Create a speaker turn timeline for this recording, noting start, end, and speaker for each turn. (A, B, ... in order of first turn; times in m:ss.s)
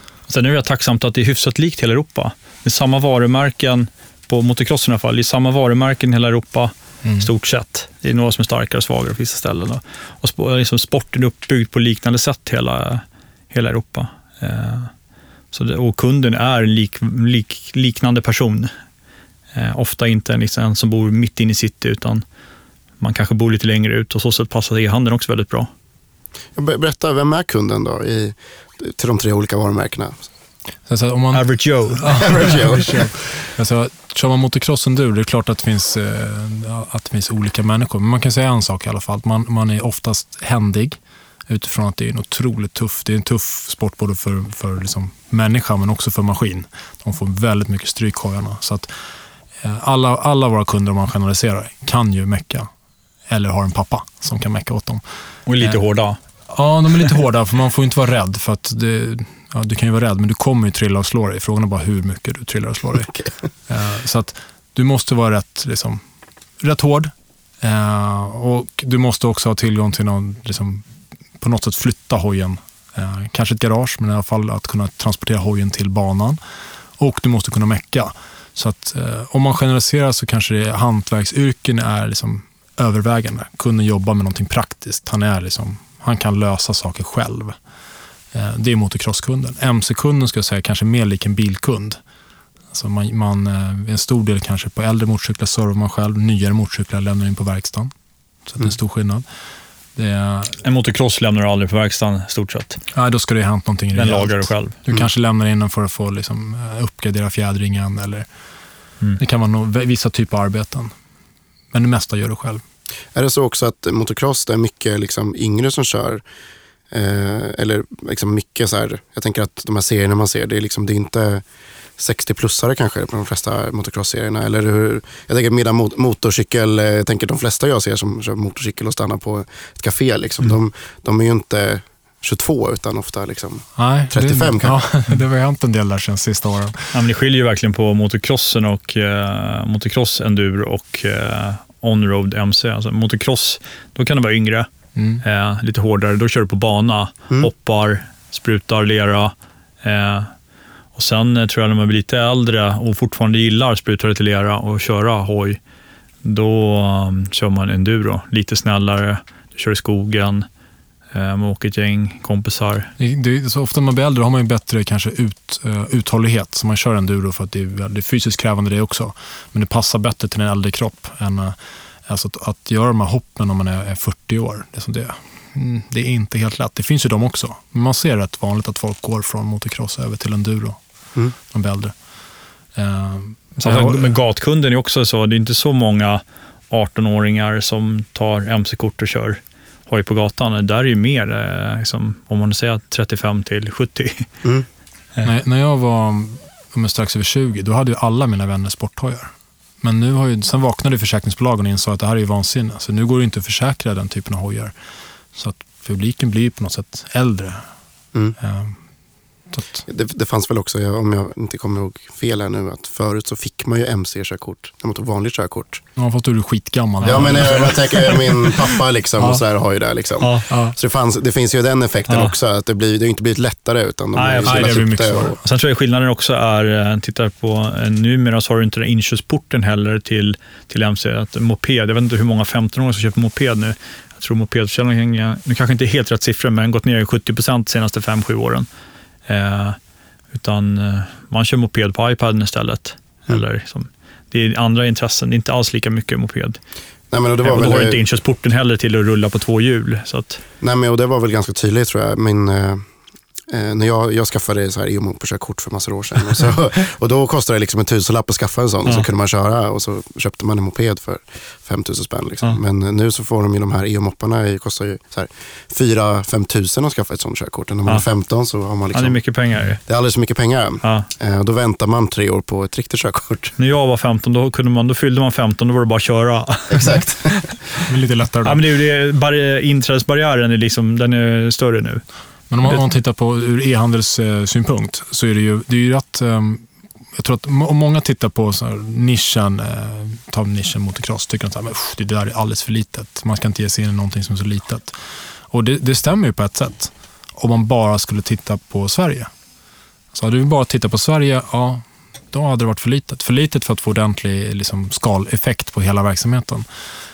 0:00.3-0:14.9 A
0:07.0-0:07.3 B
0:15.5-0:18.7 A
0:19.5-0:22.2 A
0:23.0-0:25.7 A
0:26.6-0:30.3 C
0:30.9-0:49.0 B
0:31.3-0:32.6 A
0:32.2-0:32.9 C
0:49.6-0:52.7 B
0:53.3-0:55.0 B
0:55.5-0:56.2 A
0:56.5-1:03.1 B
1:03.7-1:06.0 B
1:06.6-1:10.9 B
1:11.4-1:16.4 B
1:17.0-1:27.6 B
1:28.3-1:32.0 B
1:32.7-1:37.9 B
1:38.5-1:39.2 B
1:40.0-1:40.6 B
1:40.6-1:42.8 A
1:42.9-1:48.3 B
1:44.0-1:44.8 A
1:49.2-1:50.9 B
1:51.7-1:52.6 B
1:53.2-1:56.2 C
1:56.9-2:01.4 C
2:02.0-2:14.8 C
2:13.8-2:16.9 B
2:16.9-2:24.7 A
2:25.0-2:25.2 B
2:25.2-2:30.3 A
2:31.0-2:35.6 A
2:36.2-2:40.5 A
2:41.1-2:42.9 A
2:43.0-3:00.8 B
3:01.4-3:01.9 B
3:02.8-3:04.1 B
3:03.6-3:14.3 A
3:15.2-3:24.8 B
3:25.4-3:27.6 B
3:28.4-3:28.8 B
3:29.5-3:29.8 B
3:29.9-3:35.8 C
3:36.0-3:38.5 B
3:37.0-3:45.4 C
3:37.0-3:37.8 A
3:40.2-3:40.5 A
3:40.5-3:40.8 B
3:42.1-3:42.3 A
3:44.2-3:44.9 A
3:44.4-3:45.4 B
3:45.4-3:58.7 A
3:59.3-3:59.8 A
4:00.3-4:06.6 A
4:07.1-4:08.0 C
4:07.4-4:10.4 A
4:10.6-4:12.8 C
4:13.5-4:29.2 C
4:28.9-4:29.8 A
4:29.9-4:33.6 C
4:30.8-4:31.1 A
4:33.6-4:37.5 A
4:36.7-4:37.4 C
4:37.9-4:38.6 B
4:38.4-4:42.0 A
4:42.5-4:55.0 B
4:55.5-4:59.3 B
5:00.1-5:06.7 B